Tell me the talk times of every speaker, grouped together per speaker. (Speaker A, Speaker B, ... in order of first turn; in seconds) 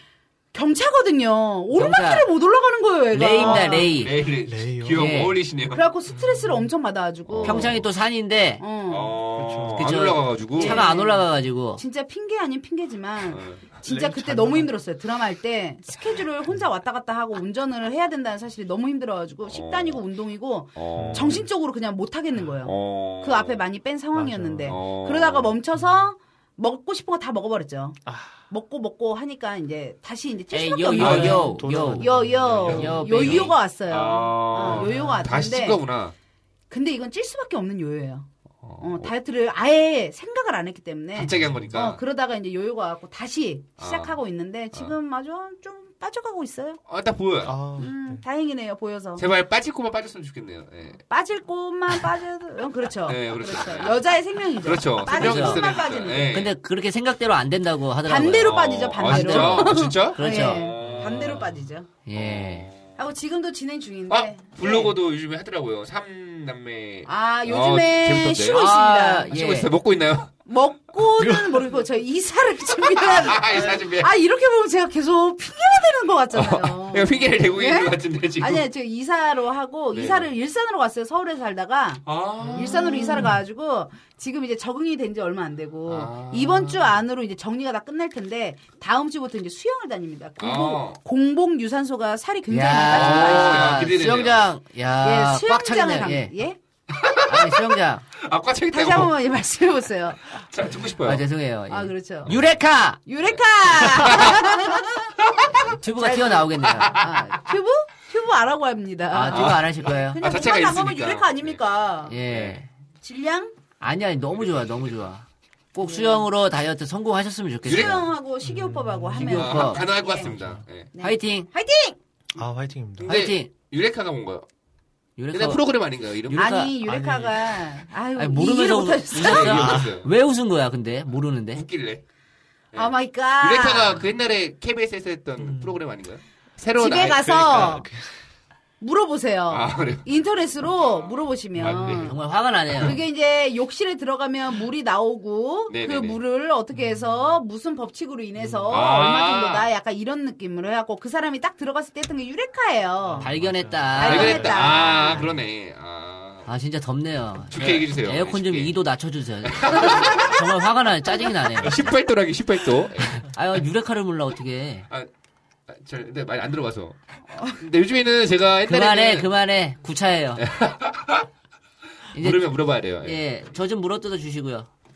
Speaker A: 0.5-3.9, 5.7-7.8, 8.6-9.2, 10.5-35.8, 36.7-38.3, 38.8-46.8, 47.8-49.2, 51.1-56.5, 58.0-61.9, 63.0-65.0, 67.0-69.3, 70.5-93.9, 95.0-96.6, 98.7-100.3, 101.7-102.3, 103.1-105.2, 106.0-112.2, 113.0-113.5, 115.8-116.3, 117.7-120.3, 120.9-122.0, 126.3-129.9, 132.7-134.0, 136.8-137.8, 138.8-142.2, 142.8-153.3, 153.9-155.3, 167.3-167.6
Speaker B: 1.7-2.3, 3.1-4.2, 4.9-5.4, 7.4-8.6, 9.8-11.8, 30.5-33.5, 55.1-60.7, 62.0-62.7, 68.5-69.7, 92.5-96.3, 97.2-98.0, 101.0-103.0, 105.7-107.0, 109.1-110.2, 112.1-112.7, 113.8-118.1, 119.1-119.9, 121.0-121.5, 123.0-123.5, 125.2-125.6, 126.3-126.7, 128.2-131.6, 141.6-143.0, 153.2-154.8, 156.4-161.9, 163.2-164.9, 168.7-170.4, 172.1-174.7
Speaker C: 3.4-5.9, 7.3-7.8, 8.9-10.8, 13.2-13.8, 19.4-20.0, 20.8-21.4, 22.6-23.6, 24.6-25.6, 30.9-31.5, 32.5-36.1, 38.6-39.1, 41.1-42.0, 43.8-44.2, 46.9-47.6, 49.2-51.0, 53.0-54.0, 54.6-56.5, 58.4-61.5, 62.1-63.0, 64.1-68.6, 69.3-70.3, 73.0-74.1, 76.3-78.6, 79.9-80.3, 82.0-83.3, 85.9-86.9, 90.4-91.0, 92.8-94.5, 96.9-99.1, 100.4-101.2, 103.2-105.8, 106.6-107.3, 109.3-111.6, 112.2-112.6, 114.3-115.0, 117.7-118.1, 119.3-120.9, 123.0-124.5, 125.3-126.5, 129.2-130.1, 131.5-132.0, 132.7-137.8, 139.5-140.1, 140.8-142.9, 145.7-146.2, 148.7-149.7, 154.0-156.5, 157.5-158.7, 159.4-160.4, 161.6-163.3, 165.7-169.3, 170.4-171.3, 172.1-173.2
Speaker D: 4.5-5.0, 6.1-6.7, 9.4-9.9, 13.8-14.7, 20.9-21.4, 24.1-24.7, 28.1-28.4, 31.0-32.7, 34.7-35.2, 41.4-41.6, 47.4-48.2, 71.2-71.7, 82.9-83.4, 118.4-119.4, 120.2-120.6, 122.4-123.1, 126.8-127.7, 129.6-129.9, 135.4-135.8, 137.2-138.1, 146.8-147.0, 148.4-148.8, 153.1-155.4